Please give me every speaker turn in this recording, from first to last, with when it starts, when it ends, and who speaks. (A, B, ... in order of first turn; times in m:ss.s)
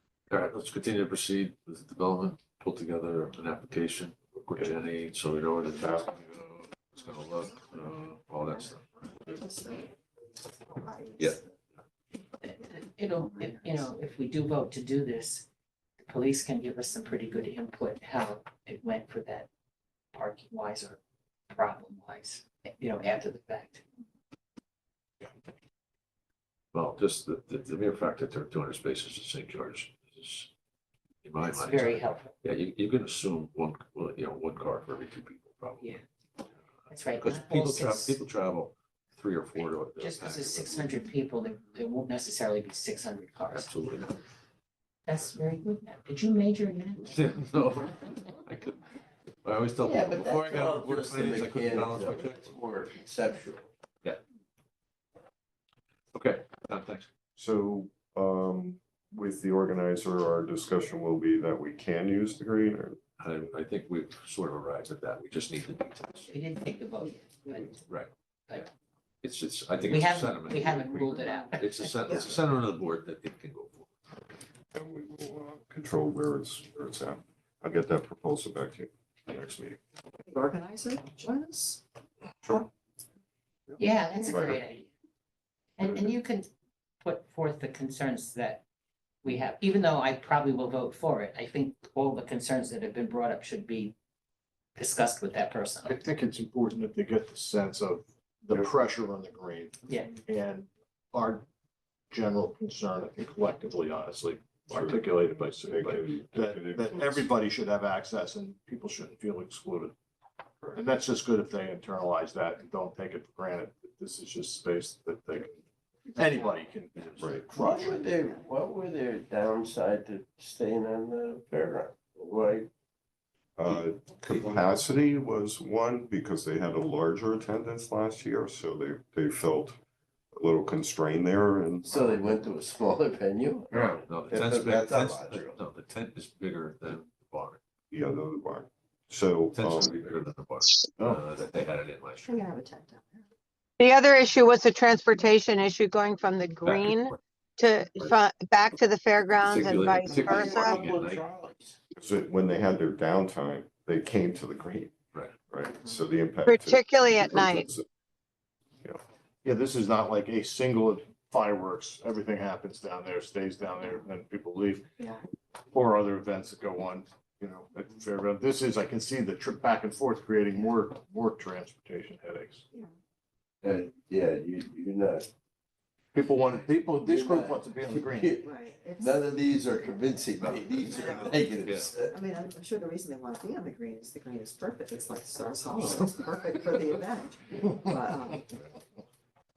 0:00.3-0:08.8 A
0:05.6-0:06.1 B
0:09.2-0:09.9 C
0:10.7-0:11.4 C
0:12.4-0:15.4 D
0:16.0-0:19.5 D
0:20.1-0:23.8 D
0:26.7-0:30.5 A
0:31.2-0:36.0 A
0:31.4-0:32.3 D
0:36.9-0:38.2 D
0:37.2-0:40.9 A
0:40.0-0:43.7 D
0:43.5-0:44.2 A
0:45.0-0:47.2 D
0:47.1-0:48.8 A
0:49.4-0:52.5 A
0:49.8-0:53.7 E
0:56.1-0:57.1 A
0:57.4-1:03.0 B
1:03.2-1:06.3 A
1:06.3-1:07.8 D
1:09.2-1:13.9 A
1:09.9-1:12.3 D
1:14.7-1:19.8 B
1:20.3-1:21.8 C
1:23.8-1:24.9 D
1:24.3-1:24.6 B
1:25.8-1:26.5 D
1:25.8-1:26.1 B
1:27.0-1:28.6 D
1:29.2-1:33.9 D
1:34.8-1:36.0 D
1:35.9-1:39.7 F
1:39.9-1:40.1 D
1:40.3-1:41.4 F
1:42.1-1:49.9 F
1:44.7-1:45.1 B
1:45.6-1:47.3 B
1:50.8-1:55.4 F
1:56.1-1:56.7 C
1:56.2-1:57.7 F
1:56.9-1:57.8 A
1:57.2-1:57.4 B
1:57.5-2:02.7 E
1:57.7-1:58.4 C
2:03.6-2:09.8 B
2:03.6-2:04.6 A
2:10.3-2:12.0 B
2:11.8-2:15.6 E
2:13.7-2:17.6 A
2:17.9-2:20.0 B
2:19.5-2:22.4 A
2:22.2-2:23.2 C
2:23.8-2:30.8 G
2:26.6-2:27.0 A
2:29.4-2:31.2 A
2:29.5-2:31.8 E
2:32.0-2:34.9 B
2:35.5-2:37.8 B
2:36.4-2:37.7 G
2:39.4-2:44.8 F
2:45.7-2:52.6 F
2:53.6-2:55.3 E
2:56.1-2:58.3 F
2:57.0-3:02.1 E
2:58.4-3:01.4 C
3:01.6-3:02.0 A
3:02.1-3:08.4 C